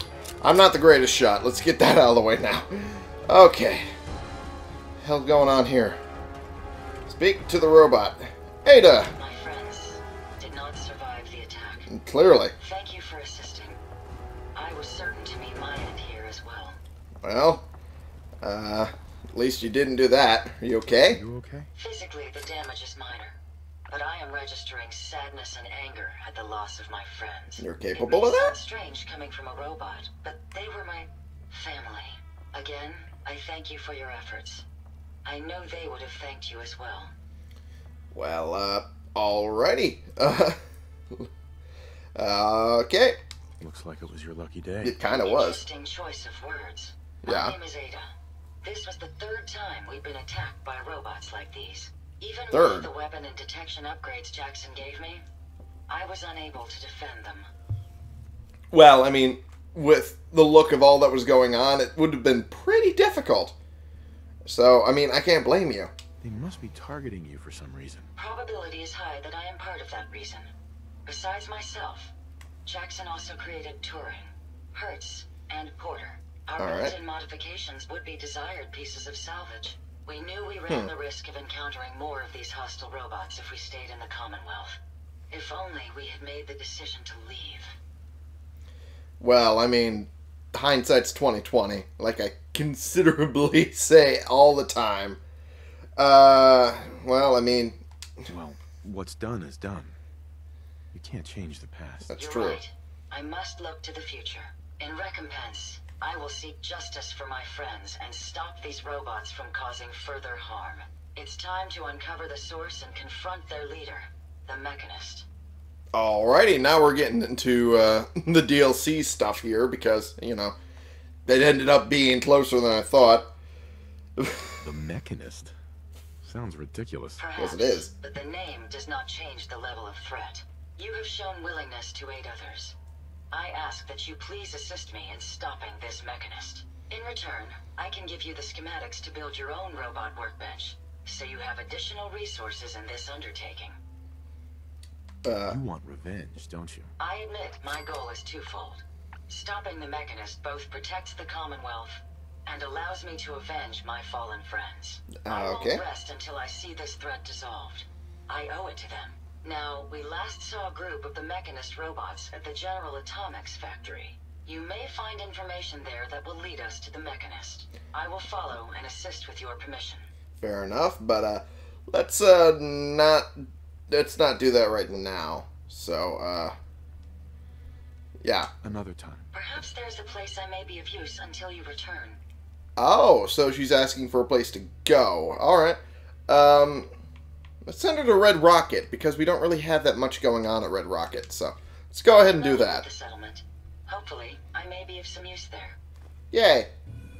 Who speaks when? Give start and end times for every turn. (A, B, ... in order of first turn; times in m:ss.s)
0:00.4-0:03.9 A
0:05.0-0:06.0 A
0:07.1-0:09.1 A
0:09.1-0:11.9 B
0:11.9-0:12.5 A
0:12.6-0:13.8 B
0:14.5-0:16.8 B
0:17.2-0:17.6 A
0:18.4-0:21.2 A
0:21.0-0:21.7 C
0:21.8-0:23.3 B
0:23.9-0:34.6 B
0:27.6-0:28.5 A
0:35.2-0:37.1 B
0:38.1-0:40.6 A
0:42.2-0:43.2 A
0:43.6-0:45.0 C
0:44.8-0:45.6 A
0:45.1-0:48.1 B
0:47.2-0:47.5 A
0:48.6-0:55.2 B
0:52.5-0:52.9 A
0:55.9-0:57.5 B
0:58.7-1:03.5 A
1:04.4-1:05.9 A
1:06.2-1:08.1 C
1:08.2-1:10.5 B
1:11.0-1:12.1 B
1:12.6-1:24.8 B
1:16.6-1:16.9 A
1:25.3-1:27.7 B
1:29.2-1:35.2 A
1:36.0-1:37.8 A
1:38.3-1:39.9 C
1:40.9-1:42.1 C
1:42.1-1:42.6 A
1:42.2-1:55.3 B
1:55.9-2:00.5 A
2:01.3-2:03.3 A
2:04.2-2:04.6 A
2:04.6-2:05.5 C
2:06.2-2:07.2 C
2:07.2-2:12.7 B
2:07.4-2:07.9 A
2:13.3-2:23.7 B
2:25.2-2:25.6 A
2:25.5-2:26.9 C
2:27.0-2:50.1 B
2:35.2-2:35.8 A
2:50.4-2:53.3 A
2:53.9-2:56.6 A
2:58.2-2:58.5 A
2:58.6-2:59.2 C
2:59.3-3:02.2 B
3:02.8-3:06.9 A
3:07.6-3:12.8 A
3:12.1-3:15.8 B
3:16.3-3:16.7 A